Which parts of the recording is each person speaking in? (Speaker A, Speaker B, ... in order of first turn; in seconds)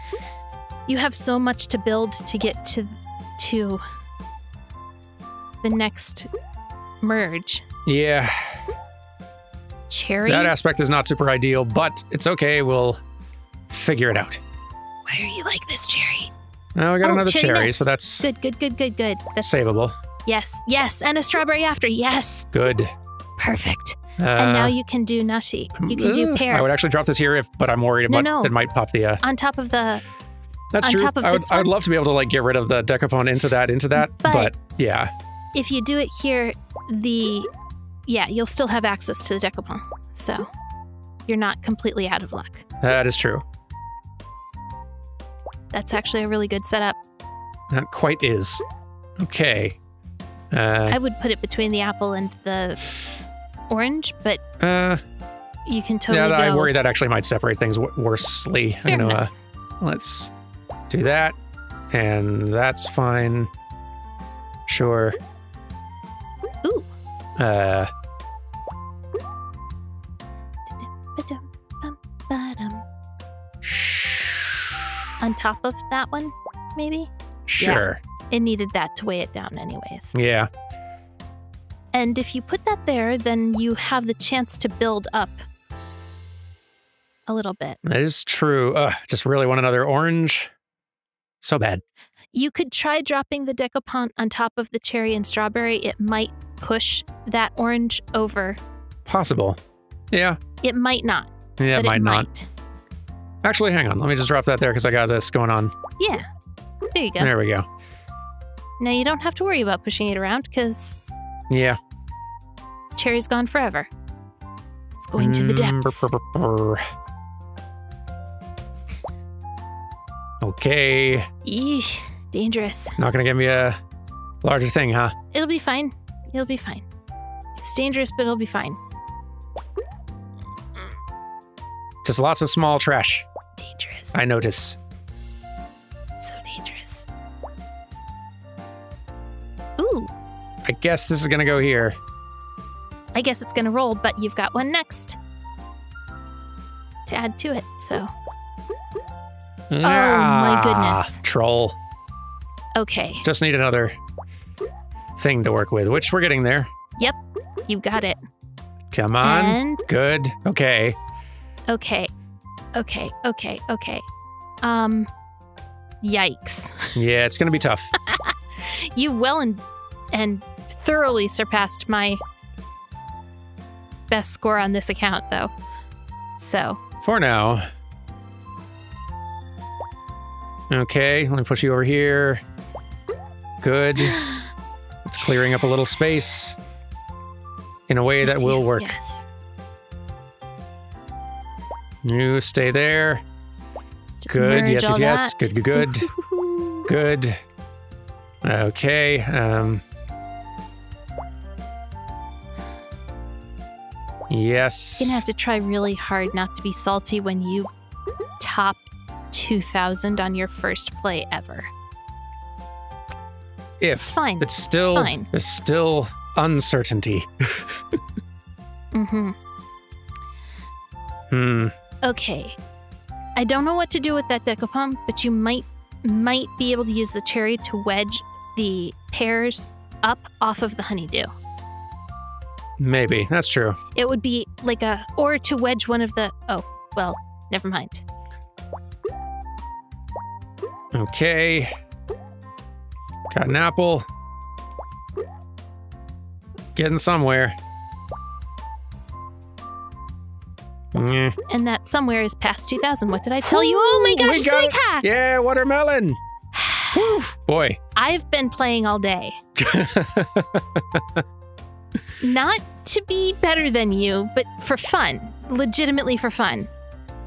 Speaker A: 0.9-3.8, 5.6-6.3, 7.0-7.6, 9.9-10.5, 15.1-16.3, 17.0-19.6, 20.2-22.5, 23.4-26.7, 28.1-28.5, 29.2-30.0, 30.8-31.7, 34.0-34.5, 35.5-37.5, 38.1-40.5, 41.2-42.6, 45.7-47.0, 50.9-52.9, 53.7-54.4, 55.6-56.7, 58.9-59.3, 66.6-66.9, 70.7-72.8, 75.2-80.1, 81.9-85.4, 87.3-87.8, 92.3-98.6, 100.6-102.5, 106.0-106.3, 106.9-107.3, 108.8-111.0, 113.0-113.9, 115.0-116.1, 121.4-123.0, 125.3-126.8, 127.6-128.8, 133.6-134.2, 136.2-137.1, 139.8-140.1, 143.1-145.2, 147.1-148.1, 149.8-151.2, 152.7-153.2, 157.0-158.2, 159.2-159.8, 161.7-162.1, 162.7-164.0, 164.6-165.1, 166.0-166.9, 167.9-172.2, 174.1-175.5, 176.4-176.8, 184.0-184.5, 188.2-189.3, 194.2-196.9, 205.0-207.7, 208.4-211.7, 214.0-215.3, 218.9-219.3, 222.0-222.6, 223.4-231.3, 233.9-238.0, 251.5-255.1, 256.5-257.2, 257.9-259.4, 262.2-266.7
Speaker B: 7.8-8.6, 10.2-13.0, 13.7-14.4, 16.8-18.3, 19.4-19.9, 22.5-22.9, 24.2-24.7, 25.7-29.2, 30.7-35.1, 42.8-43.4, 47.7-48.6, 49.2-49.8, 50.5-51.0, 54.6-55.0, 56.1-59.3, 59.8-60.3, 60.9-61.3, 61.9-63.5, 64.7-65.2, 67.4-67.9, 73.6-74.9, 77.5-78.0, 80.1-80.5, 87.8-90.5, 91.4-91.8, 99.0-99.6, 100.1-100.4, 101.6-102.3, 103.4-105.7, 107.2-107.7, 111.5-111.8, 115.2-116.8, 120.4-121.3, 123.0-123.8, 124.4-125.2, 132.0-133.3, 134.1-134.8, 140.6-142.0, 149.7-151.8, 153.2-153.9, 155.2-156.7, 158.9-160.9, 166.9-167.9, 177.0-177.6, 180.7-182.4, 183.6-184.2, 185.0-186.6, 187.9-188.9, 192.0-193.2, 194.3-196.1, 196.8-197.4, 198.4-199.8, 204.3-205.2, 213.8-217.7, 221.3-221.7, 232.8-233.8, 240.9-241.7, 243.3-244.1, 246.7-247.5, 250.9-251.3, 253.4-256.2, 256.9-257.8, 259.6-261.2